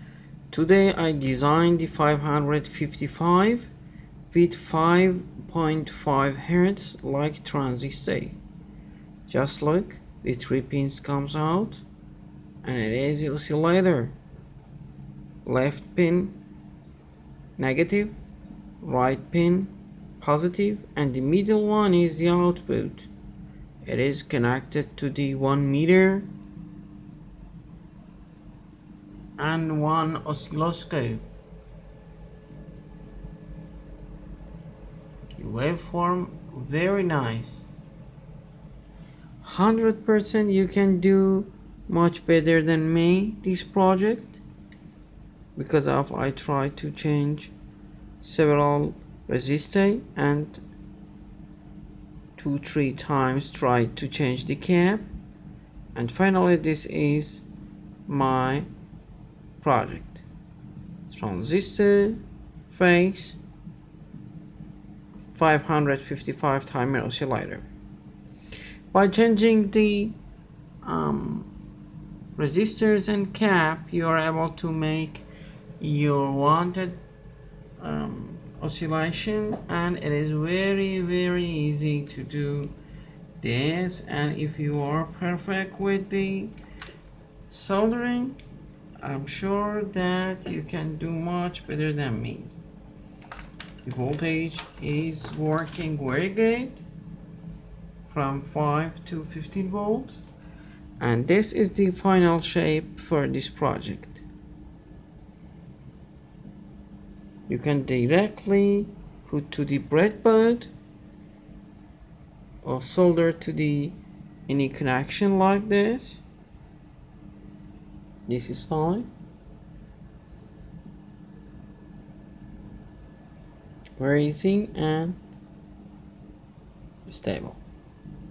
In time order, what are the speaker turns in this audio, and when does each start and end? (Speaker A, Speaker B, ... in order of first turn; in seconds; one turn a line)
Speaker A: 0.5-3.7
Speaker A: 4.3-8.4
Speaker A: 9.3-11.8
Speaker A: 12.6-14.1
Speaker A: 15.4-16.4
Speaker A: 17.6-18.1
Speaker A: 18.8-23.1
Speaker A: 23.9-26.3
Speaker A: 29.4-31.2
Speaker A: 35.4-37.7
Speaker A: 39.4-44.4
Speaker A: 45.6-47.5
Speaker A: 48.2-50.6
Speaker A: 52.4-55.1
Speaker A: 56.0-57.5
Speaker A: 58.1-58.7
Speaker A: 59.6-60.2
Speaker A: 61.1-63.4
Speaker A: 65.3-67.7
Speaker A: 68.9-70.2
Speaker A: 70.8-71.5
Speaker A: 72.4-75.3
Speaker A: 75.8-77.0
Speaker A: 77.8-82.7
Speaker A: 83.4-86.5
Speaker A: 87.5-88.4
Speaker A: 89.0-92.6
Speaker A: 93.8-96.8
Speaker A: 98.1-100.2
Speaker A: 101.0-104.2
Speaker A: 107.5-110.7
Speaker A: 112.6-114.0
Speaker A: 114.5-116.2
Speaker A: 118.3-119.1
Speaker A: 124.0-125.2
Speaker A: 127.1-127.6